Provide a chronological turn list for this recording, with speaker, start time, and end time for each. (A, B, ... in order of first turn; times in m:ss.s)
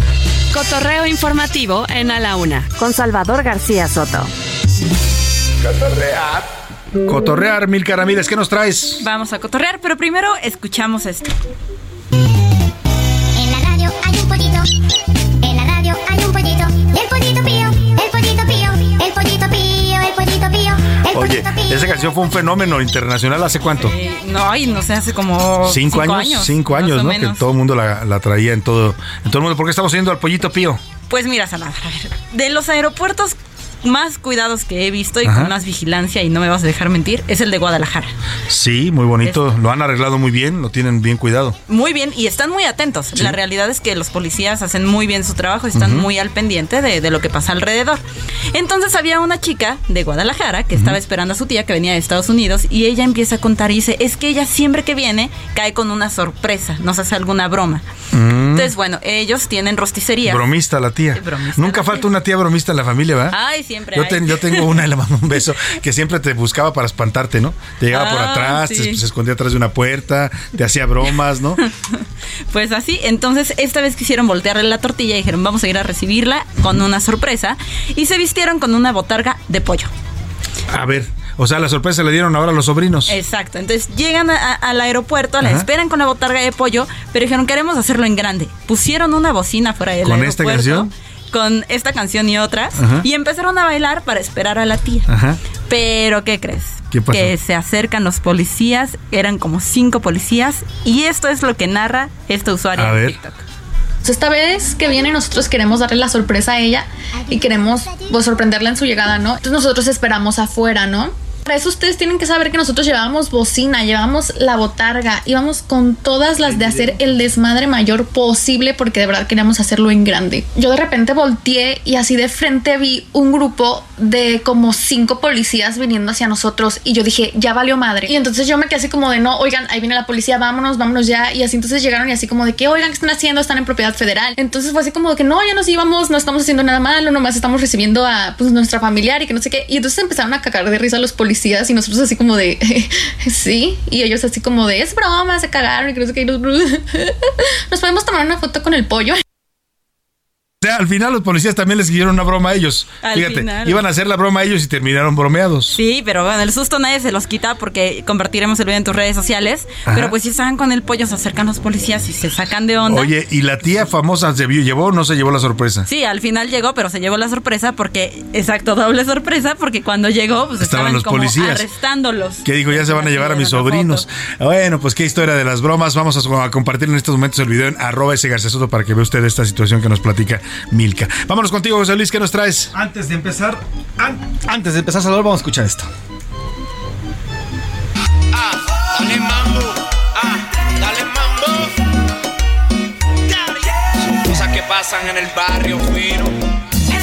0:00.5-0:04.3 A
0:05.8-0:06.3 B
0:07.1-0:09.0 B
0:09.0-0:11.3 C
0:13.4-0:14.6 D
0:15.5-0:21.3 D
0:21.1-0:23.9 B
0:23.7-0:27.5 C
0:25.6-0:30.8 B
0:31.1-0:38.1 C
0:35.2-0:35.5 B
0:38.5-0:41.6 B
0:41.7-0:57.8 C
0:45.8-0:46.1 B
0:58.1-0:58.7 B
0:58.5-1:00.5 C
1:00.2-1:03.4 B
1:01.1-1:02.1 C
1:03.3-1:04.8 C
1:03.9-1:11.6 B
1:07.9-1:09.0 C
1:12.5-1:19.9 C
1:20.7-1:23.1 B
1:23.1-1:35.1 C
1:30.0-1:30.9 B
1:32.8-1:33.1 B
1:35.1-1:35.4 B
1:35.7-1:43.4 C
1:36.9-1:37.3 B
1:42.8-1:43.2 B
1:44.0-2:27.1 E
2:27.7-2:29.2 E
2:30.6-2:35.8 B
2:33.0-2:33.8 C
2:35.7-2:43.1 C
2:39.9-2:40.1 B
2:42.9-2:45.9 B
2:45.9-2:54.1 C
2:50.6-2:51.6 B
2:52.4-3:02.7 B
3:02.7-3:05.9 F
3:08.4-3:09.6 G
3:10.8-3:11.6 G
3:14.2-3:16.3 G